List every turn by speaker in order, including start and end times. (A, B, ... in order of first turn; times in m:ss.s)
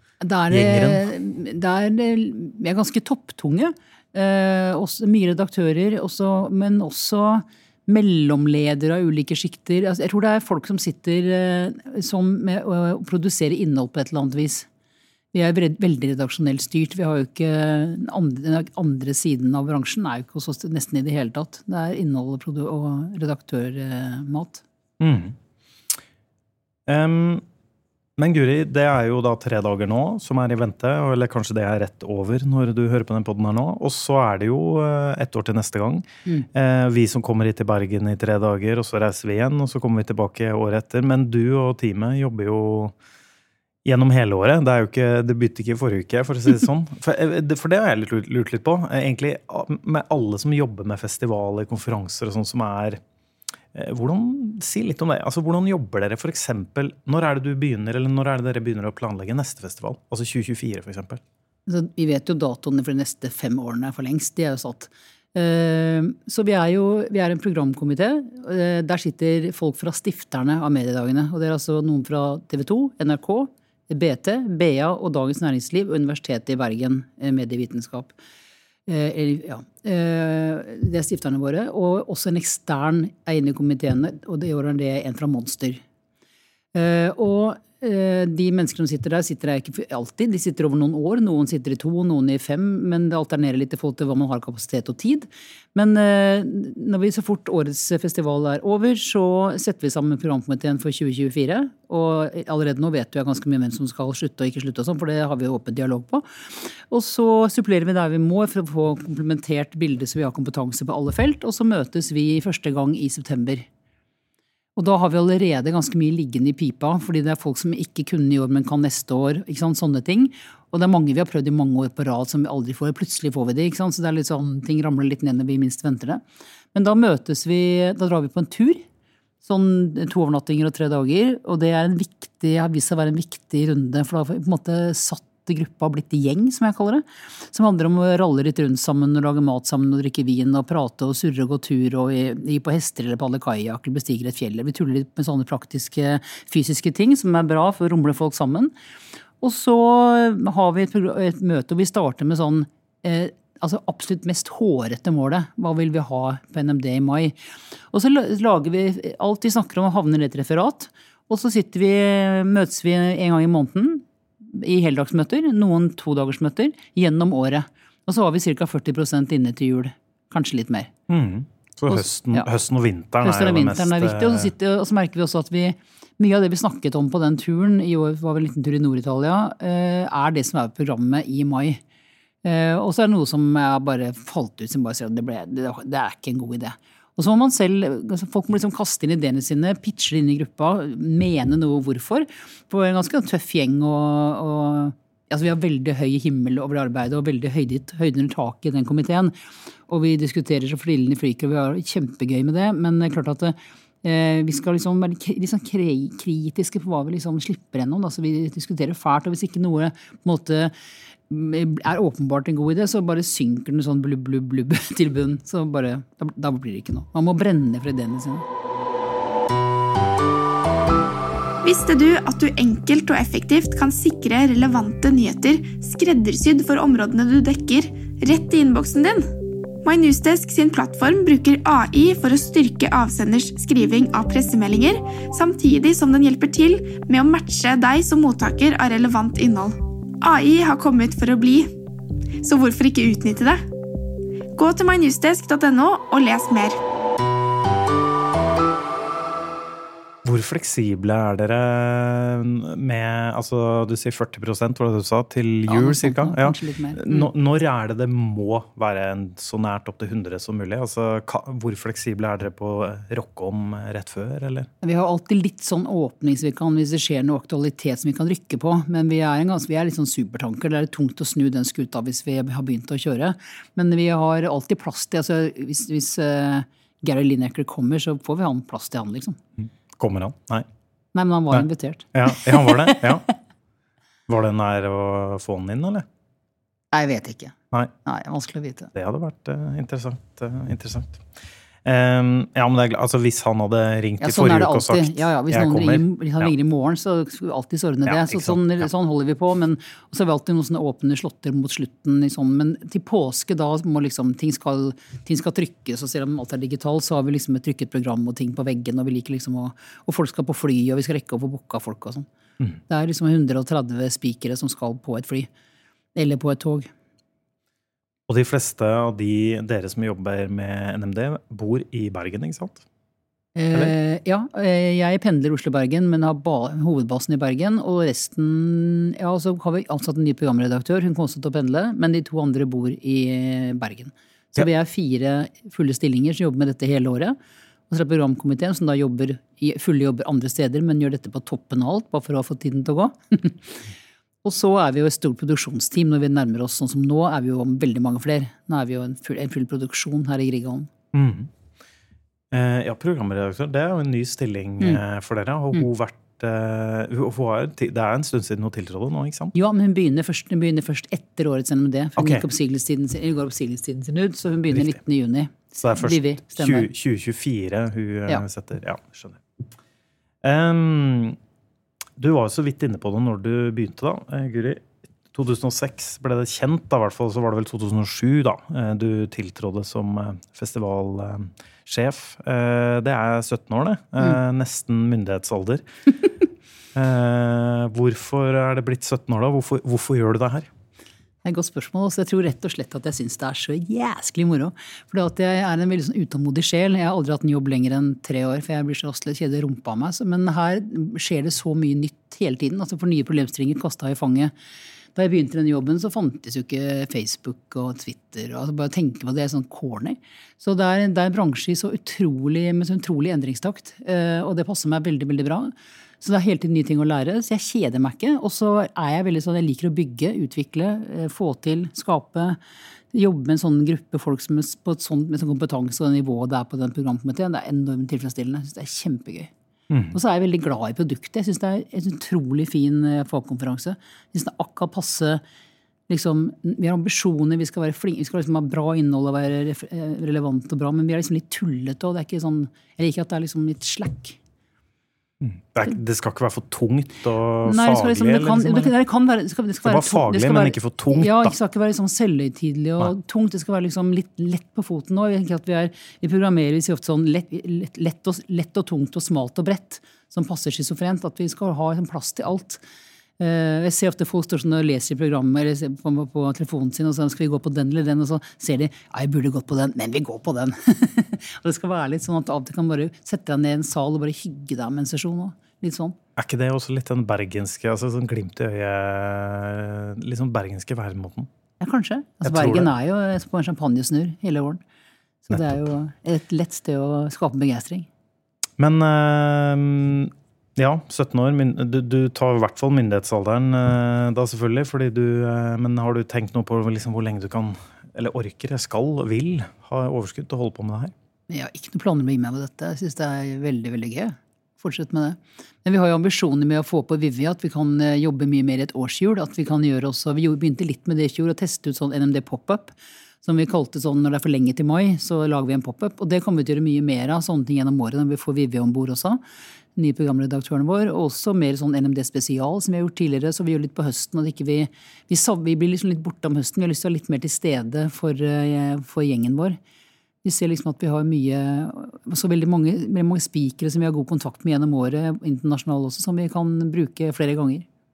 0:00.2-0:14.7 A
0:00.5-0:01.0 B
0:15.3-0:24.6 A
0:25.0-0:25.4 B
0:26.9-0:27.4 B
0:28.2-0:43.0 B
0:43.8-0:53.0 B
0:53.7-1:01.2 B
1:01.7-1:18.2 A
1:18.9-1:25.8 A
1:26.7-1:46.2 A
1:46.9-1:53.7 A
1:54.8-2:06.2 A
2:06.7-2:08.8 A
2:09.4-2:28.7 A
2:29.4-2:37.4 A
2:37.9-2:50.9 A
2:51.1-2:54.5 B
2:51.9-2:52.5 A
2:53.2-3:01.8 A
3:02.4-3:19.3 A
3:19.9-3:30.7 A
3:31.3-3:38.4 A
3:41.6-3:49.3 C
3:49.8-4:01.7 C
4:02.4-4:03.6 C
4:04.6-4:06.8 C
4:10.2-4:24.7 B
4:15.7-4:17.3 A
4:24.8-4:39.4 A
4:39.6-4:40.7 B
4:41.1-4:43.3 A
4:41.5-4:43.2 B
4:44.3-4:46.1 B
4:46.9-4:48.9 A
4:48.9-4:51.2 B
4:51.8-4:56.5 B
4:54.2-5:12.3 A
4:58.1-4:58.6 B
5:12.9-5:15.5 A
5:16.2-5:16.9 A
5:18.3-5:22.8 B
5:23.6-5:37.4 A
5:37.9-5:43.9 A
5:44.4-5:50.9 A
5:51.1-5:51.5 B
5:52.5-5:59.5 B
5:59.5-6:06.9 A
6:02.2-6:02.4 B
6:05.8-6:09.4 B
6:10.4-6:11.4 B
6:12.2-6:25.8 B
6:27.0-6:30.7 B
6:31.4-6:44.5 A
6:45.2-7:02.6 A
7:03.1-7:09.5 A
7:09.9-7:10.2 B
7:10.1-7:15.4 A
7:16.1-7:24.4 A
7:25.4-7:28.9 B
7:27.6-7:42.8 A
7:29.8-7:31.6 B
7:43.4-7:56.2 A
7:56.4-8:01.5 B
8:01.8-8:04.8 A
8:02.4-8:02.9 B
8:05.4-8:08.1 A
8:08.8-8:21.1 B
8:21.5-8:39.4 A
8:40.0-8:49.8 A
8:50.4-8:57.9 A